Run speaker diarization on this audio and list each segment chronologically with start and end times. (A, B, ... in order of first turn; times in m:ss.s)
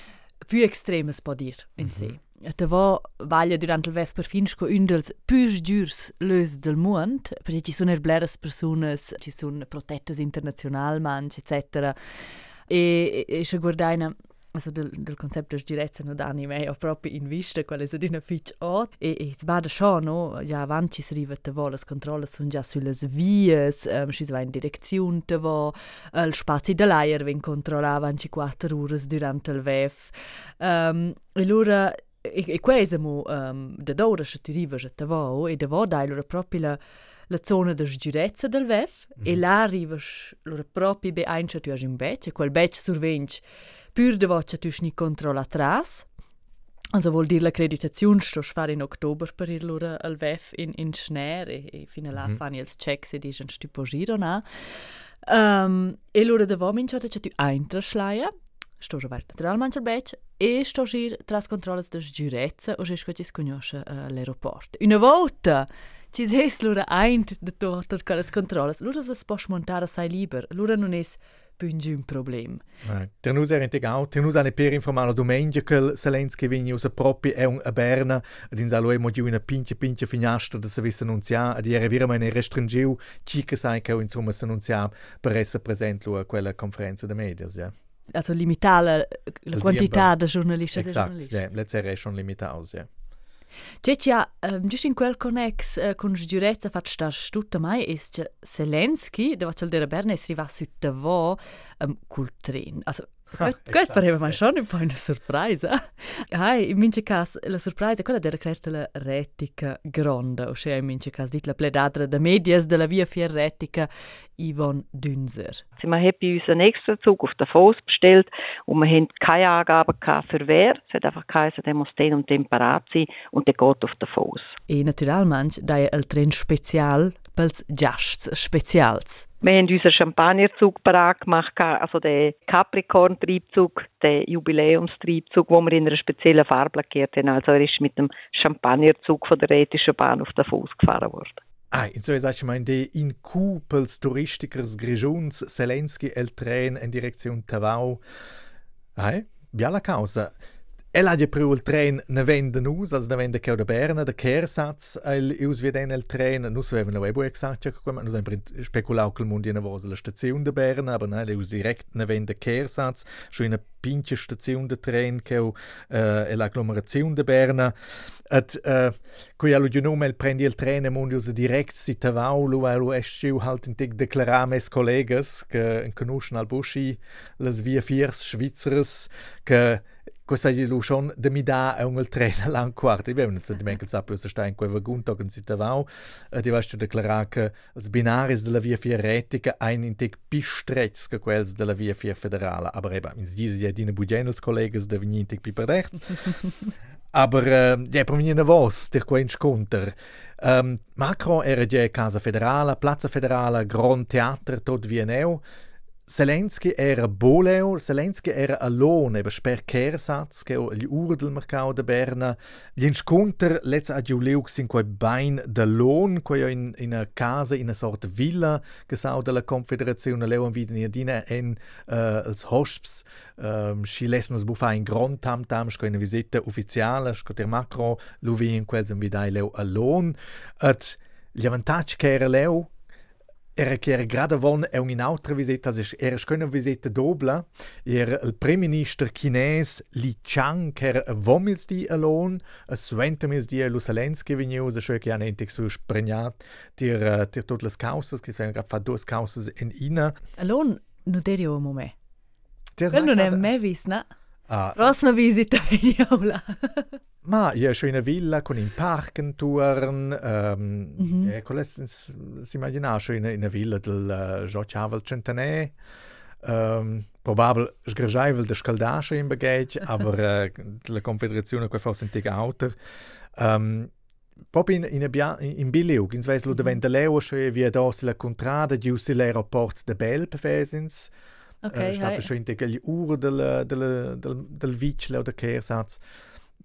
0:00.5-0:12.0 A
0:01.8-0:02.2 B
0:12.7-0:43.4 A
0:43.9-0:46.0 A
0:46.9-0:54.4 A
0:55.2-1:12.6 A
1:12.8-1:27.7 B
1:28.1-1:31.5 A
1:29.5-1:30.1 B
1:30.7-1:32.9 B
1:33.8-1:55.6 A
1:43.4-1:44.4 B
1:55.8-2:04.5 C
2:04.7-2:09.3 A
2:09.4-2:21.4 C
2:21.7-2:28.0 B
2:29.0-2:30.3 B
2:30.9-2:47.7 B
2:48.3-3:16.4 B
3:17.1-3:25.4 B
3:26.1-3:52.7 B
3:53.6-4:10.2 B
4:10.4-4:11.9 A
4:12.8-4:13.5 B
4:12.9-4:14.0 A
4:14.5-4:14.9 B
4:14.7-4:17.0 A
4:17.2-4:25.7 B
4:21.0-4:21.3 A
4:26.4-4:32.8 B
4:33.4-4:33.9 B
4:34.5-4:41.1 B
4:41.6-4:42.3 A
4:41.7-4:46.0 B